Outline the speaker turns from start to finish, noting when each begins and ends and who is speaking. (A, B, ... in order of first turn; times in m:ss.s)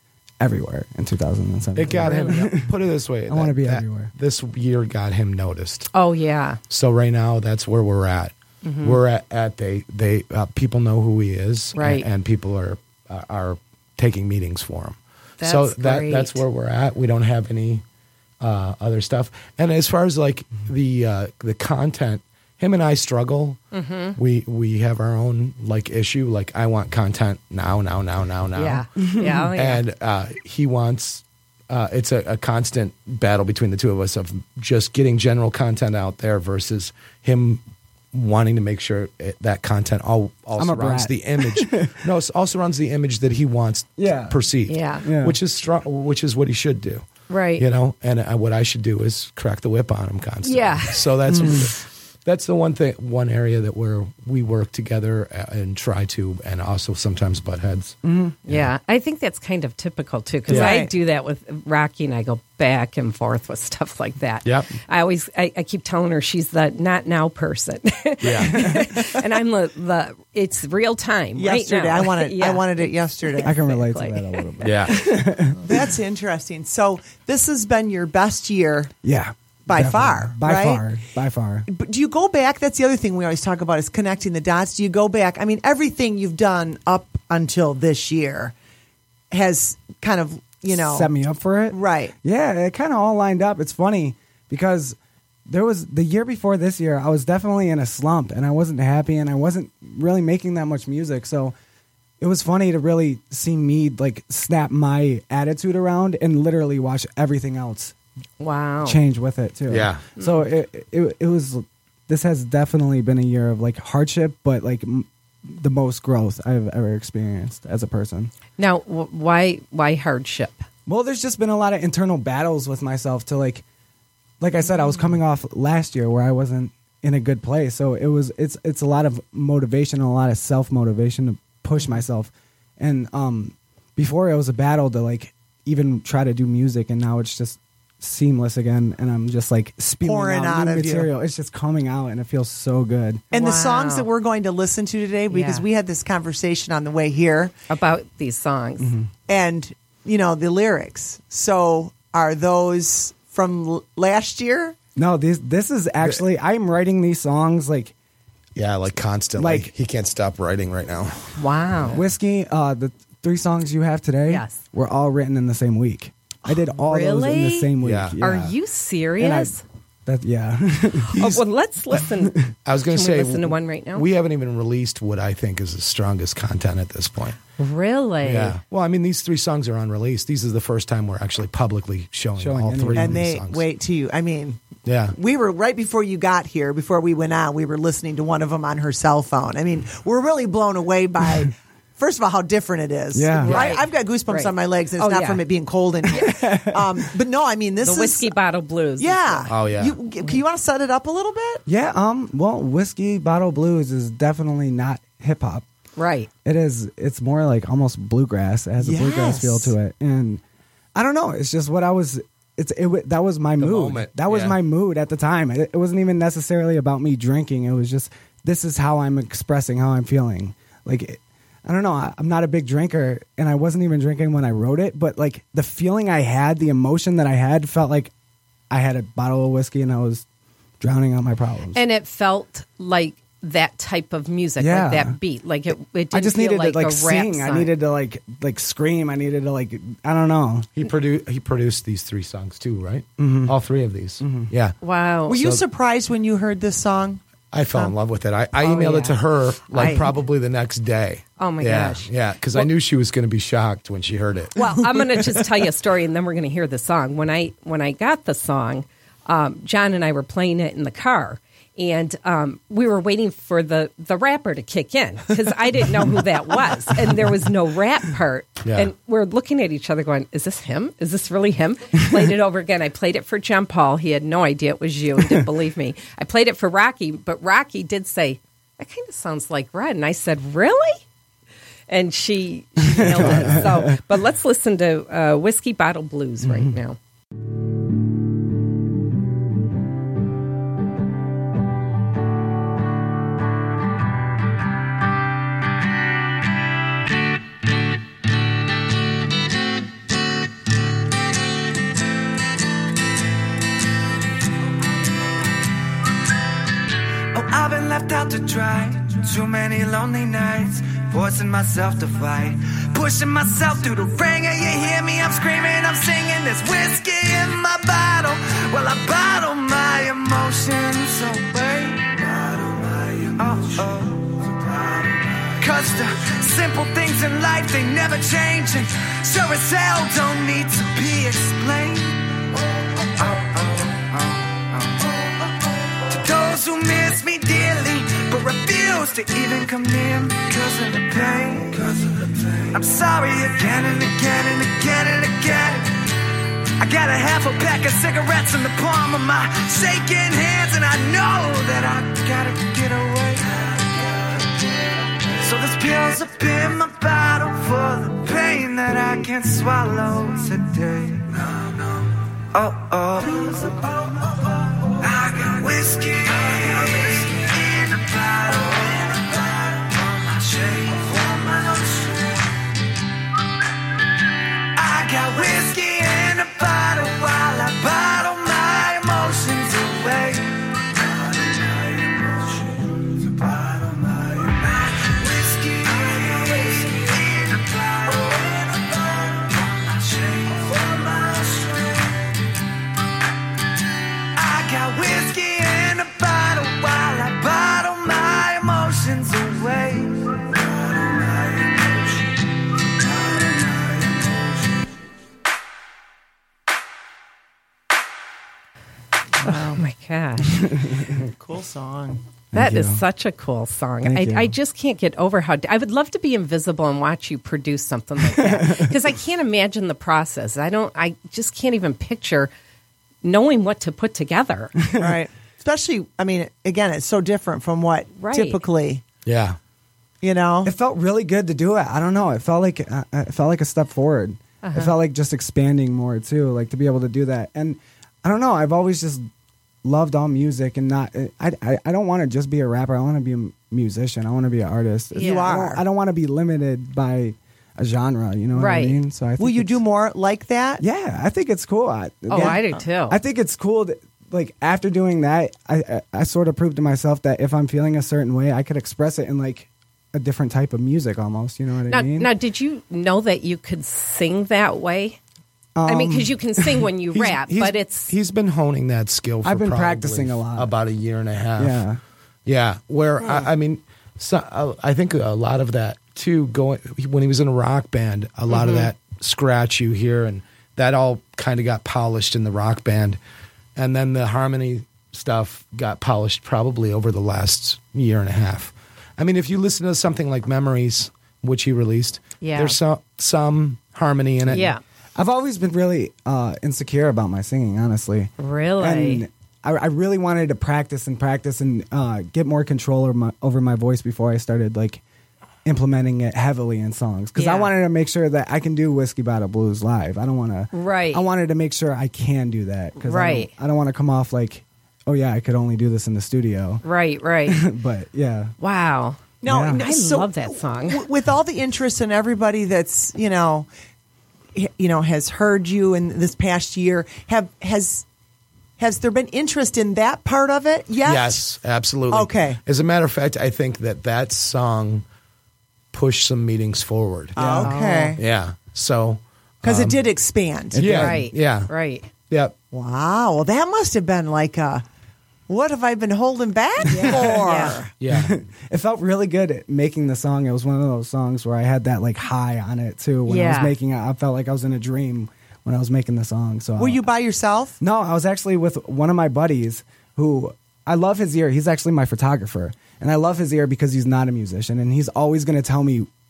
0:00.4-0:04.1 A
0:01.8-0:05.9 B
0:02.1-0:02.4 C
0:05.9-0:06.6 C
0:06.7-0:17.8 B
0:08.6-0:09.0 C
0:11.8-0:12.1 C
0:15.4-0:16.4 C
0:18.4-0:23.6 B
0:23.7-0:24.2 C
0:24.2-0:37.6 B
0:28.6-0:29.8 C
0:29.0-0:29.5 A
0:38.1-0:47.0 B
0:40.6-0:42.0 A
0:44.0-0:44.4 A
0:44.7-0:45.0 C
0:45.0-0:45.4 A
0:47.3-0:47.6 C
0:47.6-0:58.7 B
0:50.4-0:51.1 C
0:51.3-0:51.7 A
0:58.0-0:58.4 A
0:58.5-1:15.2 C
1:00.5-1:00.8 B
1:00.5-1:00.9 D
1:04.4-1:04.7 B
1:08.2-1:08.8 B
1:11.4-1:13.6 D
1:13.4-1:15.8 A
1:14.6-1:15.0 B
1:15.6-1:18.9 D
1:19.0-1:21.7 A
1:19.7-1:20.9 D
1:21.7-1:28.5 D
1:29.3-1:31.1 D
1:30.7-1:41.5 A
1:31.7-1:32.1 D
1:42.2-1:47.9 A
1:48.4-1:49.0 C
1:48.8-1:58.3 A
1:49.7-1:50.0 B
1:50.2-1:50.4 C
1:58.6-2:00.6 C
2:00.9-2:03.6 A
2:04.4-2:23.2 A
2:20.0-2:21.1 D
2:23.3-2:24.1 C
2:23.3-2:27.5 D
2:25.3-2:25.7 C
2:27.7-2:28.9 C
2:28.8-2:29.1 A
2:29.3-2:34.8 D
2:35.0-2:37.9 A
2:38.6-2:41.4 B
2:39.4-2:39.7 A
2:41.4-2:42.0 C
2:41.9-2:48.6 A
2:44.3-2:44.6 C
2:46.8-2:49.6 C
2:47.8-2:48.2 B
2:49.2-2:49.6 A
2:50.1-2:51.4 A
2:51.0-2:54.1 C
2:52.0-2:52.5 A
2:52.6-2:57.4 B
2:57.6-2:58.6 C
2:58.2-3:03.7 B
3:02.4-3:03.2 A
3:03.0-3:04.6 D
3:04.8-3:05.2 B
3:05.1-3:18.4 D
3:13.1-3:13.7 A
3:13.4-3:15.4 C
3:16.2-3:17.1 A
3:17.8-3:19.6 C
3:19.0-3:21.6 D
3:19.5-3:20.0 B
3:21.7-3:25.6 A
3:26.0-3:26.3 C
3:26.4-3:30.4 A
3:28.8-3:29.7 D
3:31.0-3:48.1 A
3:33.6-3:34.6 B
3:48.7-3:50.2 A
3:50.8-3:51.8 A
3:51.7-3:57.7 C
3:54.6-3:55.2 A
3:56.1-4:00.7 A
4:00.8-4:04.8 B
4:03.2-4:03.6 A
4:04.2-4:04.5 A
4:04.8-4:05.4 C
4:05.3-4:07.2 D
4:05.4-4:05.6 B
4:07.5-4:14.6 B
4:08.6-4:09.2 C
4:09.7-4:10.1 C
4:11.4-4:12.7 C
4:14.6-4:41.0 C
4:28.6-4:28.9 B
4:41.9-4:47.0 C
4:42.8-4:44.0 A
4:43.3-4:43.6 B
4:46.4-4:46.8 A
5:07.3-5:24.7 E
5:25.4-5:32.5 E
5:33.0-5:35.2 E
5:36.1-5:46.0 E
5:46.8-5:54.5 E
5:55.3-6:12.4 E
6:14.8-6:32.2 E
6:34.4-6:42.2 E
6:43.1-6:44.4 E
6:49.4-6:50.6 C
6:50.5-6:51.2 A
6:51.0-6:52.2 D
6:52.5-6:53.0 A
6:52.5-7:02.5 C
6:54.0-6:54.6 A
6:58.2-6:59.0 A
7:03.2-7:04.8 C
7:05.0-7:09.0 D
7:08.2-7:08.6 C
7:09.2-7:09.6 B
7:10.2-7:10.7 D
7:10.6-7:19.3 A
7:14.6-7:14.9 C
7:19.8-7:29.8 A
7:25.1-7:25.8 D
7:25.2-7:25.5 C
7:28.5-7:29.0 C
7:29.4-7:30.8 D
7:30.8-7:42.3 A
7:32.3-7:33.2 C
7:32.3-7:32.8 D
7:41.9-7:45.2 C
7:45.8-7:46.9 A
7:45.9-7:48.1 C
7:47.1-7:51.8 B
7:49.4-7:50.7 A
7:51.6-7:52.0 A
7:52.5-8:03.2 B
7:58.5-7:58.9 C
8:03.8-8:14.7 B
8:12.4-8:12.8 C
8:14.5-8:14.8 C
8:14.5-8:25.0 A
8:18.4-8:19.2 C
8:25.6-8:36.8 A
8:27.4-8:27.7 C
8:30.7-8:31.2 C
8:33.0-8:33.5 C
8:36.8-8:37.7 C
8:37.5-8:38.5 A
8:38.6-8:41.0 C
8:39.4-8:43.7 D
8:39.4-8:39.8 A
8:44.6-8:48.0 D
8:48.8-8:51.4 D
8:51.0-8:55.0 B
8:52.1-8:52.6 D
8:55.9-8:57.4 B
8:57.4-8:58.2 D
8:57.4-8:57.8 A
8:57.6-8:58.2 C
8:58.2-9:00.0 B
8:59.6-9:00.8 D
9:00.7-9:01.3 A
9:00.8-9:01.7 B
9:00.9-9:02.1 C
9:02.7-9:04.8 D
9:05.5-9:07.9 D
9:06.9-9:07.8 C
9:06.9-9:07.2 A
9:08.0-9:08.4 B
9:08.1-9:17.0 A
9:13.3-9:13.7 C
9:16.8-9:17.8 D
9:17.8-9:26.1 A